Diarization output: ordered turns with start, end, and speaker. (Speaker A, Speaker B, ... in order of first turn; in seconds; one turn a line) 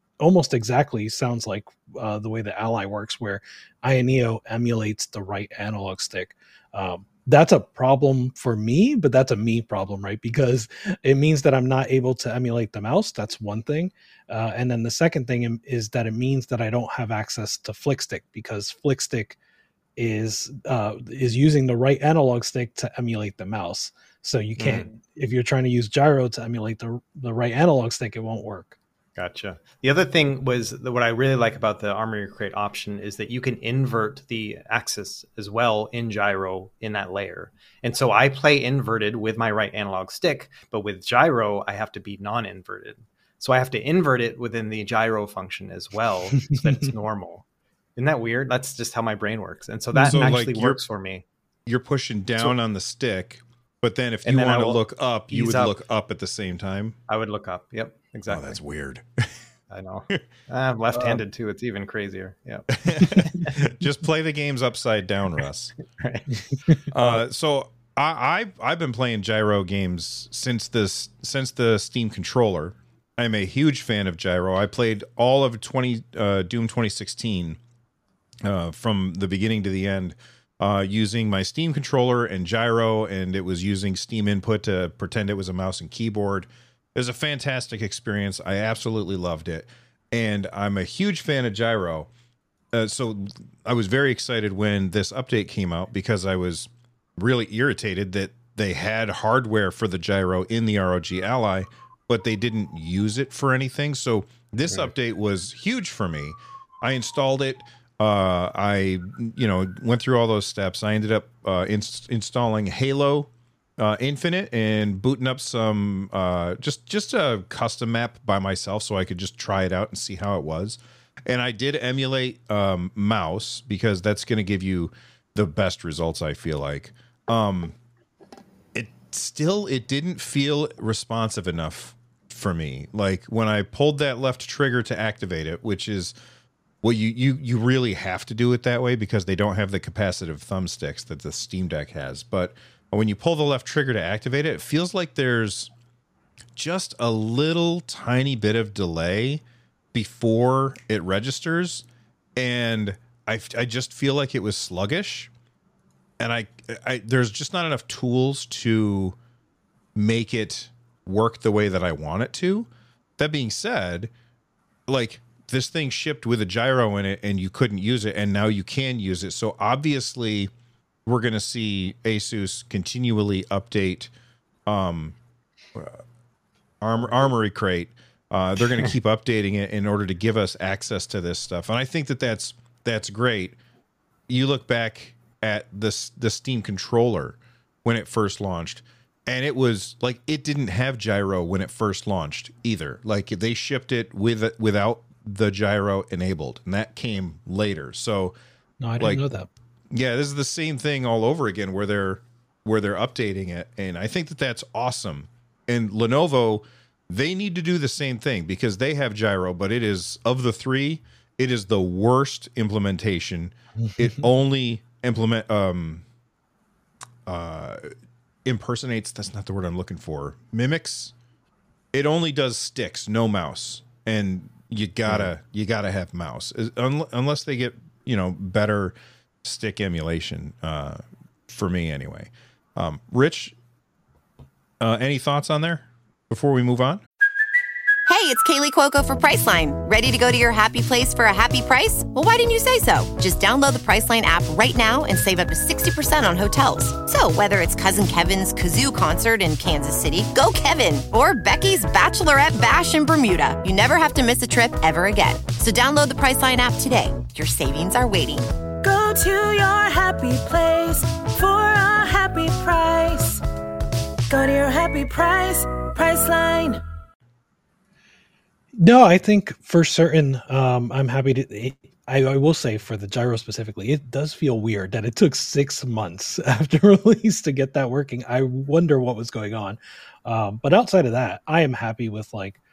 Speaker A: 0.2-19.4
Speaker A: 20.0-28.8
Speaker B: 24.6-24.9
Speaker B: 29.2-47.4
Speaker B: 48.0-51.2
Speaker A: 50.0-50.2
Speaker C: 50.0-50.8
Speaker C: 51.7-57.0
Speaker B: 54.2-55.7
Speaker B: 57.1-58.6
Speaker C: 58.3-59.3
Speaker B: 59.7-63.6
Speaker C: 62.8-65.8
Speaker B: 66.0-67.2
Speaker C: 66.9-77.6
Speaker C: 78.4-92.1
Speaker C: 92.7-127.8
Speaker C: 128.8-136.2
Speaker C: 136.8-145.7
Speaker C: 146.6-151.9
Speaker C: 152.4-155.3
Speaker C: 156.2-159.2
Speaker C: 159.9-164.1
Speaker C: 164.9-170.5
Speaker C: 171.1-174.1
Speaker C: 174.7-175.2
Speaker C: 175.8-176.0
Speaker C: 176.8-183.6
Speaker C: 184.3-198.4
Speaker A: 198.8-199.5
Speaker C: 199.9-216.1
Speaker C: 217.3-217.9
Speaker C: 218.4-221.1
Speaker C: 221.9-233.6
Speaker C: 234.8-237.0
Speaker D: 238.1-258.5
Speaker E: 258.8-263.4
Speaker E: 264.3-266.8
Speaker A: 268.8-282.6